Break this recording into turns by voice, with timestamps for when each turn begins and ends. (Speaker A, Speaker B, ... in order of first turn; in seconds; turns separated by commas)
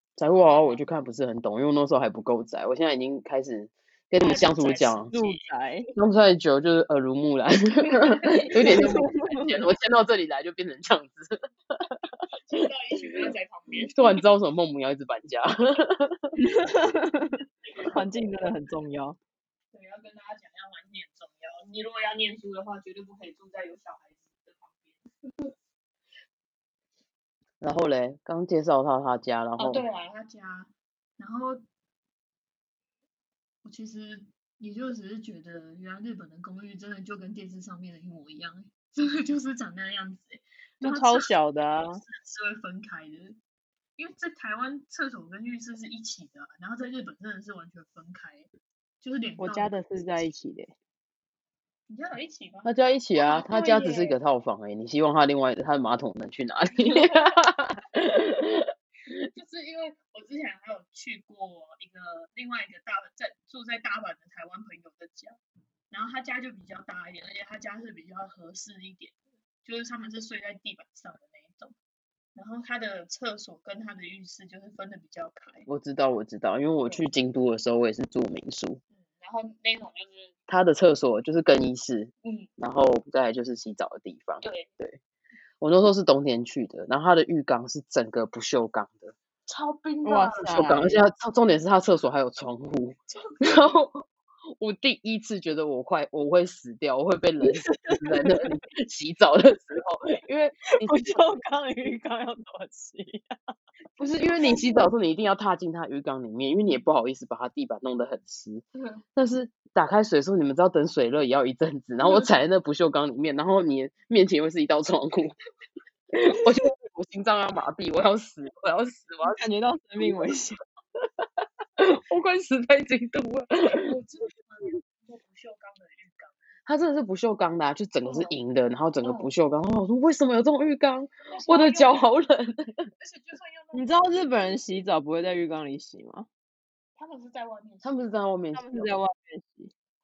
Speaker A: 0.2-5.1, Speaker B: 0.3-0.9, Speaker B: 4.2-5.5, Speaker C: 5.1-5.9, Speaker A: 6.0-12.0, Speaker B: 7.9-8.8, Speaker C: 8.6-9.6, Speaker B: 12.4-14.2, Speaker A: 13.9-16.4, Speaker C: 16.4-19.2, Speaker B: 17.7-18.1, Speaker B: 19.7-25.5, Speaker A: 27.6-29.8, Speaker B: 29.6-31.6, Speaker B: 33.6-41.4, Speaker C: 40.8-42.0, Speaker B: 41.9-43.4, Speaker B: 44.0-48.5, Speaker B: 49.0-50.3, Speaker C: 49.4-50.7, Speaker B: 51.9-54.2, Speaker A: 52.6-59.1, Speaker B: 56.8-57.3, Speaker B: 59.3-65.4, Speaker B: 65.9-71.7, Speaker B: 72.3-75.7, Speaker A: 75.7-78.8, Speaker B: 78.9-80.3, Speaker A: 80.5-85.0, Speaker B: 82.2-82.5, Speaker B: 84.4-84.7, Speaker A: 85.6-89.1, Speaker B: 89.5-90.6, Speaker C: 90.0-91.0, Speaker A: 90.4-94.1, Speaker B: 93.1-93.5, Speaker A: 94.6-101.1, Speaker C: 97.4-98.5, Speaker C: 100.8-103.4, Speaker A: 104.0-108.6, Speaker B: 104.3-104.8, Speaker A: 109.1-115.3, Speaker B: 112.0-112.3, Speaker A: 116.2-119.4, Speaker C: 119.3-120.6, Speaker A: 121.8-123.9, Speaker B: 123.6-126.4, Speaker A: 126.7-132.8, Speaker B: 128.0-128.3, Speaker B: 129.0-129.3, Speaker B: 131.3-132.1, Speaker B: 133.0-134.8, Speaker C: 133.7-136.3, Speaker B: 136.9-138.1, Speaker A: 137.8-138.9, Speaker C: 138.5-139.7